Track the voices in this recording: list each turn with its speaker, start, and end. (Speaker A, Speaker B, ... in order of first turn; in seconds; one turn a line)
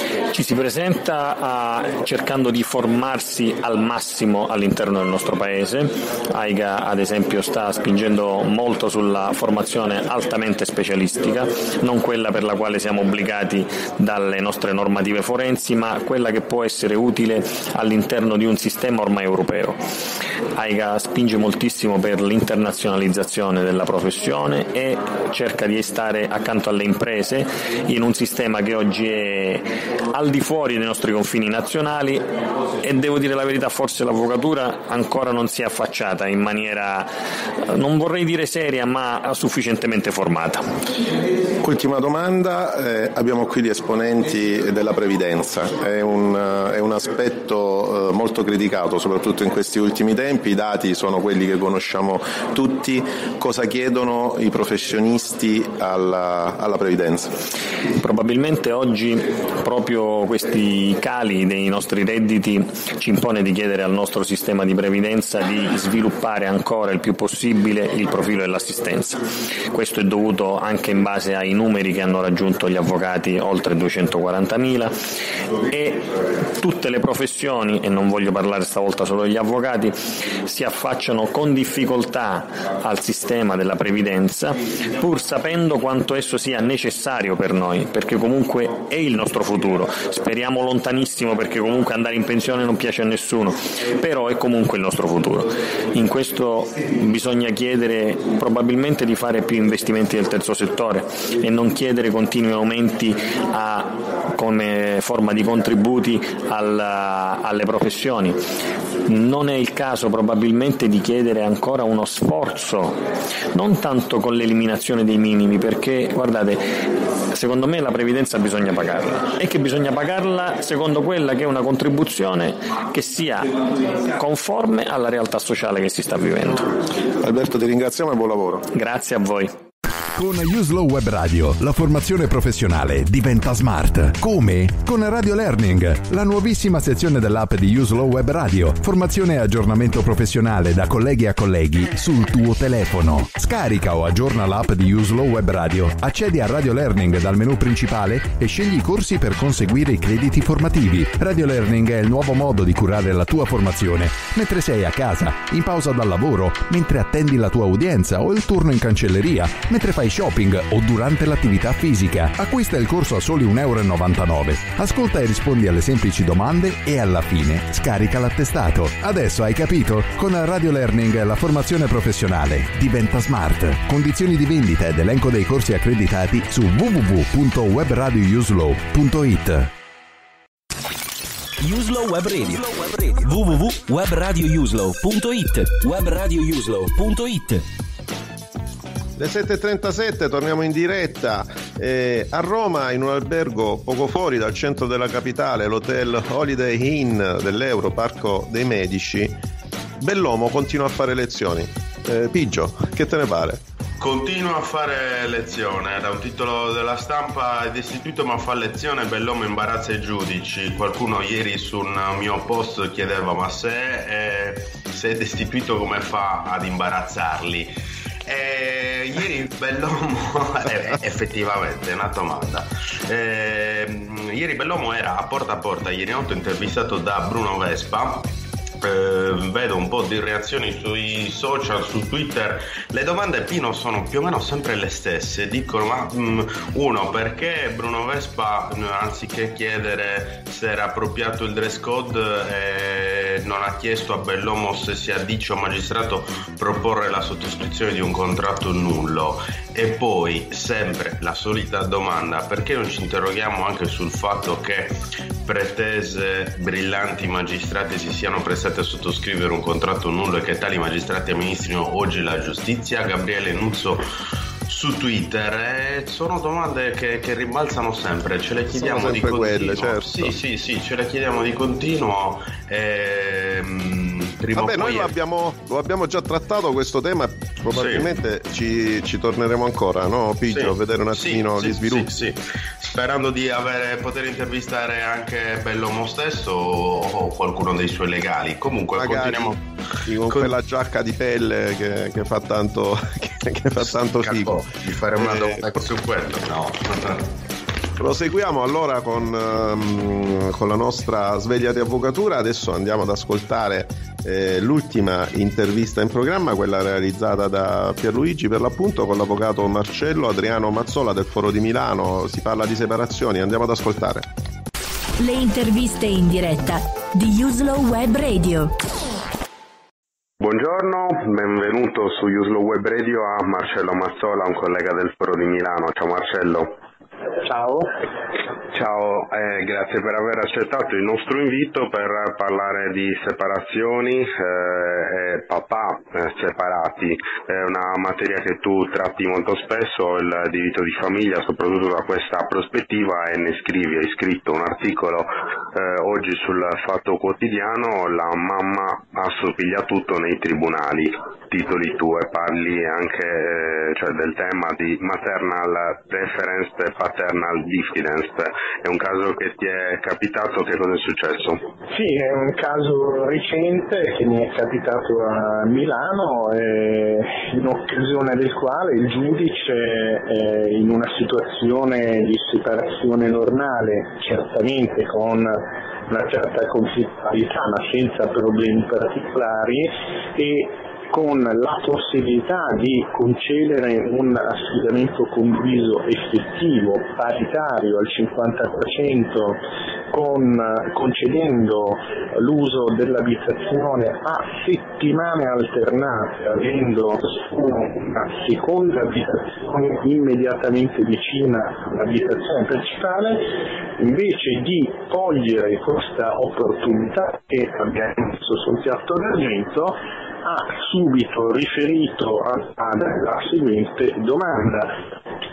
Speaker A: 0.3-19.8
Speaker A: 20.5-32.3
Speaker A: 32.8-37.1
Speaker A: 37.7-40.6
Speaker B: 41.6-57.3
Speaker A: 58.0-74.9
Speaker A: 75.7-108.4
Speaker A: 109.1-113.0
Speaker A: 113.5-116.7
Speaker A: 117.3-123.5
Speaker A: 124.1-126.7
Speaker B: 127.2-128.6
Speaker A: 128.7-129.5
Speaker C: 130.2-179.7
Speaker D: 181.6-187.6
Speaker E: 189.2-199.4
Speaker E: 200.0-203.6
Speaker F: 204.0-217.7
Speaker F: 218.2-228.3
Speaker F: 228.8-264.0
Speaker F: 264.7-275.1
Speaker E: 268.7-270.3
Speaker E: 274.5-282.1
Speaker F: 277.7-278.1
Speaker F: 280.5-289.6
Speaker E: 289.0-294.6
Speaker F: 290.3-290.5
Speaker F: 293.8-297.2
Speaker E: 295.2-295.6
Speaker E: 298.0-314.2
Speaker G: 315.2-318.7
Speaker H: 320.4-326.7
Speaker I: 327.4-327.9
Speaker H: 328.7-361.6
Speaker I: 361.9-415.0